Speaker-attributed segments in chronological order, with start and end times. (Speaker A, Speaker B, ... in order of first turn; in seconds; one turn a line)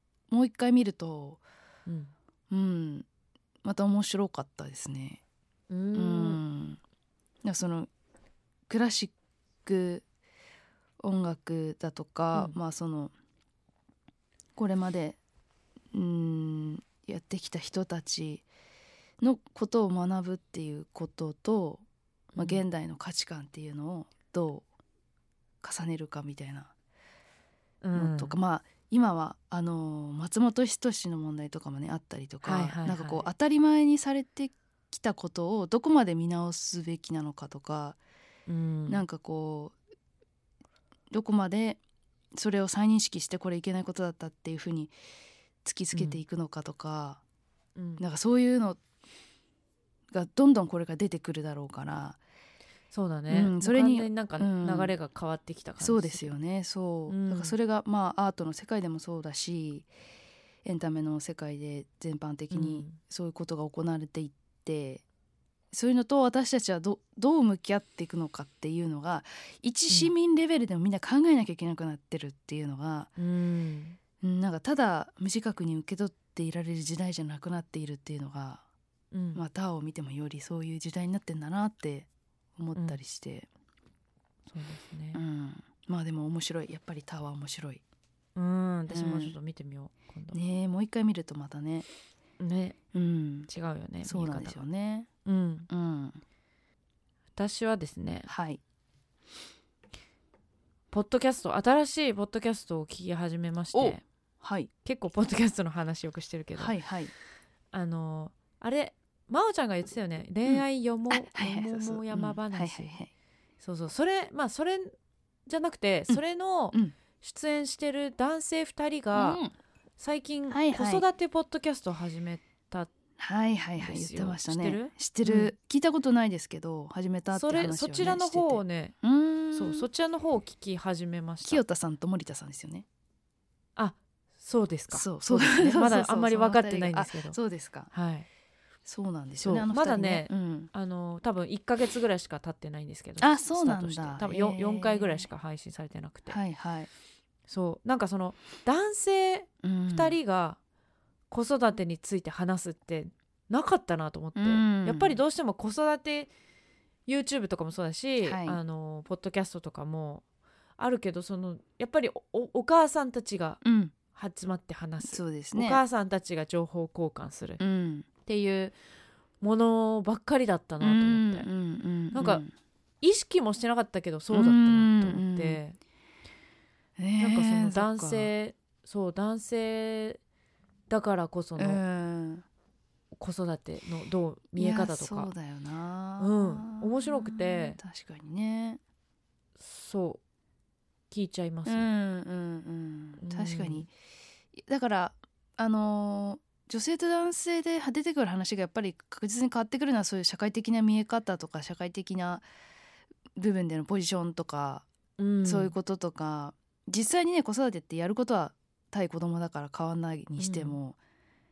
Speaker A: 0.3-1.4
Speaker B: 1.9-2.1
Speaker A: 2.5-3.0
Speaker A: 3.6-5.2
Speaker B: 5.7-6.4
Speaker A: 5.9-6.8
Speaker A: 7.4-7.9
Speaker A: 8.7-9.1
Speaker A: 9.6-10.0
Speaker A: 11.0-13.1
Speaker A: 14.6-15.2
Speaker A: 15.9-18.4
Speaker A: 19.2-24.6
Speaker B: 22.4-22.6
Speaker A: 25.6-26.7
Speaker B: 27.8-28.3
Speaker A: 27.9-38.0
Speaker B: 32.4-33.3
Speaker B: 38.5-39.0
Speaker A: 38.9-39.7
Speaker A: 41.1-41.8
Speaker A: 42.3-44.9
Speaker A: 45.6-47.2
Speaker B: 45.9-46.2
Speaker B: 47.8-48.0
Speaker A: 48.0-48.8
Speaker A: 50.1-52.2
Speaker B: 52.9-56.3
Speaker A: 53.3-54.9
Speaker A: 55.8-59.9
Speaker B: 57.1-57.5
Speaker A: 60.6-65.0
Speaker B: 62.5-63.0
Speaker A: 65.7-73.1
Speaker B: 73.2-74.0
Speaker A: 74.2-78.6
Speaker B: 79.1-79.4
Speaker A: 79.3-83.5
Speaker B: 84.5-85.2
Speaker A: 85.1-87.8
Speaker B: 88.3-90.4
Speaker A: 88.9-89.3
Speaker A: 90.3-91.9
Speaker B: 92.4-92.8
Speaker A: 92.9-93.5
Speaker B: 93.5-94.6
Speaker A: 94.0-95.1
Speaker B: 95.2-95.7
Speaker A: 95.7-96.2
Speaker B: 97.3-98.3
Speaker A: 98.3-98.6
Speaker B: 100.9-104.0
Speaker A: 103.7-104.7
Speaker B: 104.8-106.7
Speaker A: 106.5-107.1
Speaker B: 107.7-112.9
Speaker A: 110.5-113.1
Speaker B: 113.6-114.9
Speaker B: 115.5-119.4
Speaker A: 119.1-119.5
Speaker B: 120.0-122.9
Speaker A: 120.5-121.0
Speaker A: 123.2-129.9
Speaker B: 123.8-125.5
Speaker B: 127.3-128.9
Speaker B: 129.5-131.6
Speaker A: 131.4-132.8
Speaker B: 133.8-137.4
Speaker A: 134.9-137.9
Speaker B: 137.9-138.3
Speaker A: 138.8-140.7
Speaker B: 139.4-146.4
Speaker A: 143.2-145.3
Speaker A: 146.3-146.9
Speaker B: 147.5-150.6
Speaker A: 149.6-150.2
Speaker B: 151.3-156.3
Speaker A: 154.4-155.2
Speaker B: 157.1-160.2
Speaker A: 158.2-158.6
Speaker B: 160.8-163.6
Speaker A: 163.6-163.9
Speaker B: 164.1-167.6
Speaker A: 165.0-165.8
Speaker A: 167.6-168.1
Speaker B: 168.2-168.7
Speaker B: 169.4-171.5
Speaker A: 170.8-172.5
Speaker B: 172.1-172.4
Speaker B: 173.0-175.8
Speaker A: 174.3-175.6
Speaker A: 177.0-178.3
Speaker B: 177.2-180.2
Speaker B: 180.9-181.8
Speaker A: 181.6-182.4
Speaker B: 183.2-185.3
Speaker A: 184.6-188.8
Speaker B: 186.2-187.8
Speaker B: 189.6-190.2
Speaker B: 191.1-191.8
Speaker A: 191.7-193.9
Speaker B: 193.2-193.9
Speaker A: 194.5-202.4
Speaker A: 203.4-204.8
Speaker B: 205.2-205.7
Speaker A: 205.4-211.0
Speaker B: 210.4-210.8